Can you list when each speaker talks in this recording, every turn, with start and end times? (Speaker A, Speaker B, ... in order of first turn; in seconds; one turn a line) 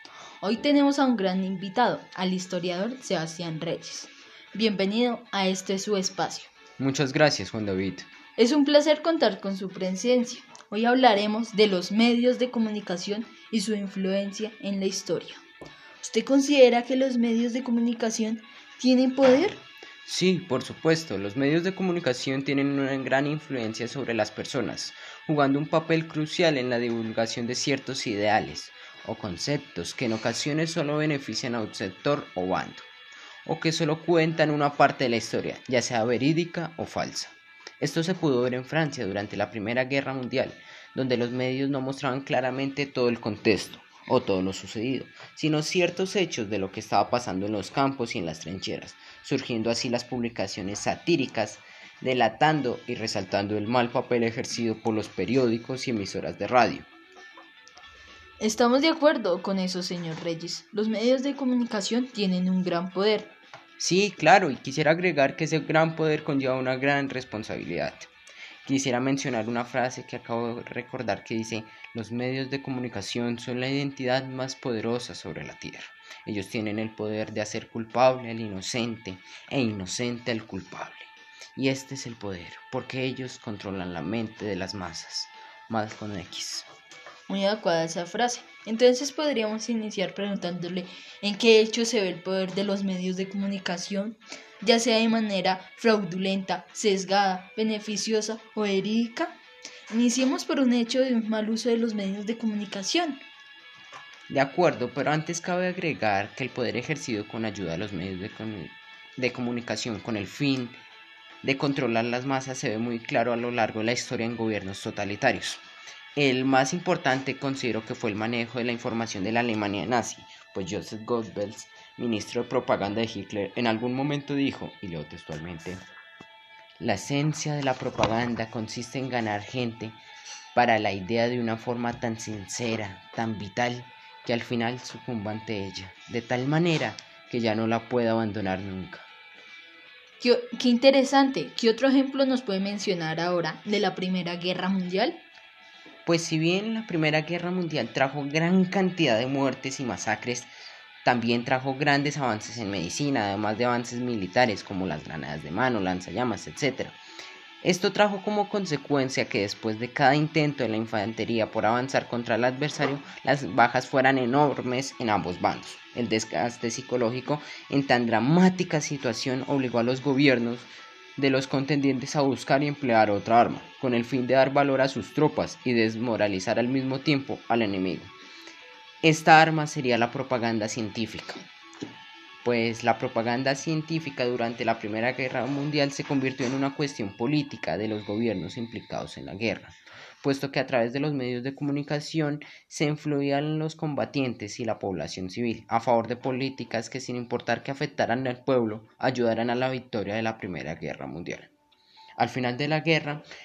Speaker A: 0.4-6.5
Speaker B: 6.8-8.1
Speaker A: 8.4-15.4
Speaker A: 16.0-19.6
Speaker B: 20.1-32.9
Speaker B: 33.5-56.9
Speaker A: 58.4-63.3
Speaker B: 63.8-68.1
Speaker B: 68.7-86.7
Speaker A: 87.3-99.4
Speaker A: 99.9-103.2
Speaker B: 104.3-110.8
Speaker B: 111.4-115.6
Speaker B: 116.2-125.8
Speaker B: 126.8-130.0
Speaker B: 130.6-139.1
Speaker A: 140.2-145.2
Speaker B: 146.1-150.5
Speaker B: 151.0-157.0
Speaker B: 157.6-178.1
Speaker B: 179.0-181.4
Speaker B: 182.4-201.5
Speaker B: 202.2-203.2